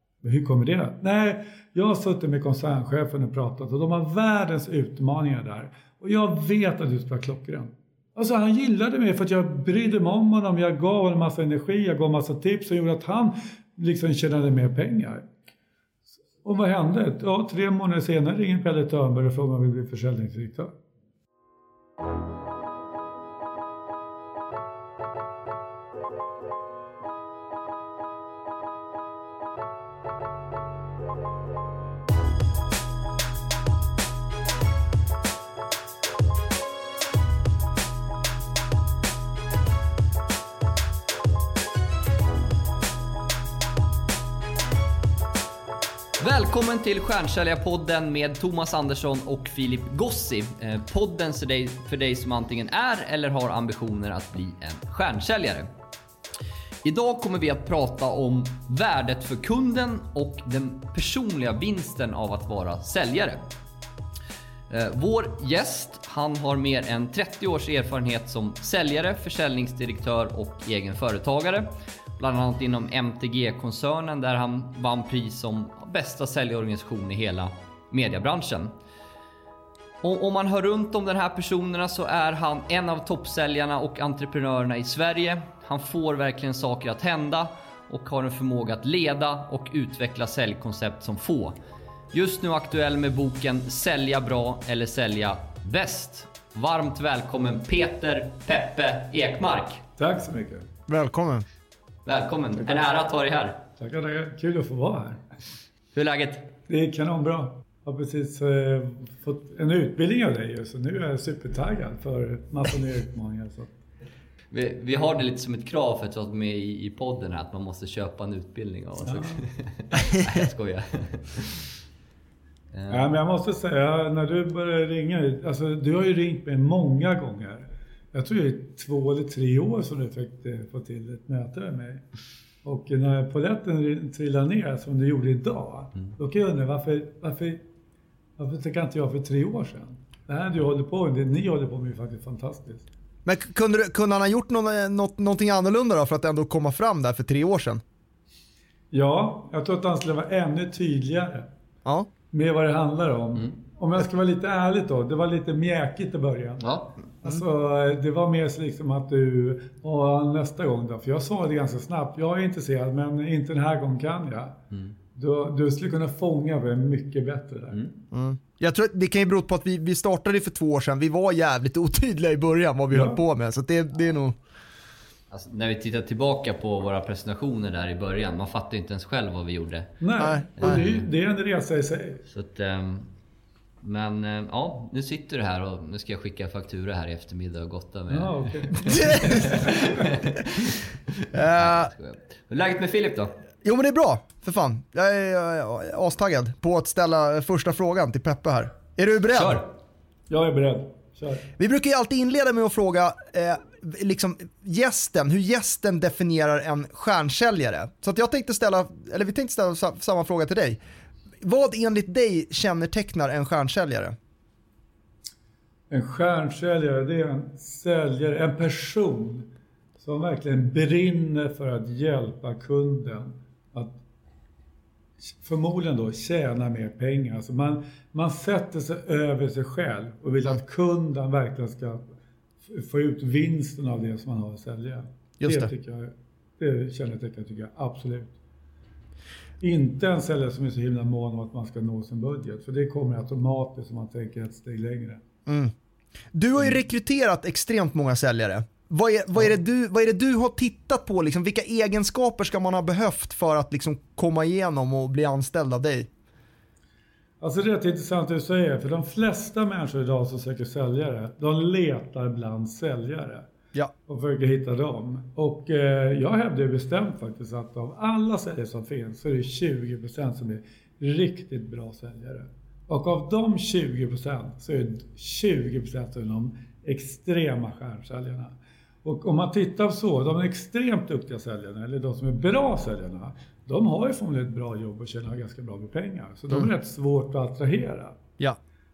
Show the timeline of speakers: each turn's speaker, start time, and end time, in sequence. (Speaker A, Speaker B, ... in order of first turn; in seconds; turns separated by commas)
Speaker A: 0.2-15.2, Speaker A: 16.4-20.7, Speaker B: 46.2-55.7, Speaker B: 56.8-63.4, Speaker B: 64.7-78.7, Speaker B: 80.0-91.6, Speaker B: 92.1-99.8, Speaker A: 100.0-100.7, Speaker C: 100.9-101.5, Speaker B: 102.0-103.6, Speaker A: 102.6-102.9, Speaker A: 103.8-105.2, Speaker B: 105.9-106.5, Speaker A: 106.7-113.7, Speaker B: 114.5-121.7, Speaker A: 119.0-119.4, Speaker B: 122.7-123.1, Speaker A: 122.9-132.0, Speaker A: 132.6-137.6, Speaker A: 138.4-142.9, Speaker C: 143.2-147.8, Speaker A: 148.9-151.5, Speaker C: 151.8-152.1, Speaker A: 152.3-164.6, Speaker B: 156.6-156.9, Speaker A: 165.1-167.9, Speaker C: 168.1-174.4, Speaker A: 172.9-173.2, Speaker B: 175.3-180.0, Speaker A: 180.0-182.2, Speaker C: 180.2-180.8, Speaker B: 180.6-181.1, Speaker B: 182.3-183.1, Speaker B: 183.8-193.3, Speaker A: 188.1-190.0, Speaker C: 188.8-189.4, Speaker C: 191.3-191.9, Speaker C: 193.6-199.6, Speaker B: 199.3-199.7, Speaker A: 200.3-201.5, Speaker C: 201.6-210.8, Speaker C: 211.4-214.2, Speaker A: 215.9-219.5, Speaker A: 220.0-223.9, Speaker A: 225.2-232.0, Speaker A: 232.6-238.3, Speaker C: 235.4-235.7, Speaker A: 239.6-245.2, Speaker C: 245.4-245.7, Speaker C: 246.3-256.1, Speaker A: 257.4-263.5, Speaker A: 264.1-288.2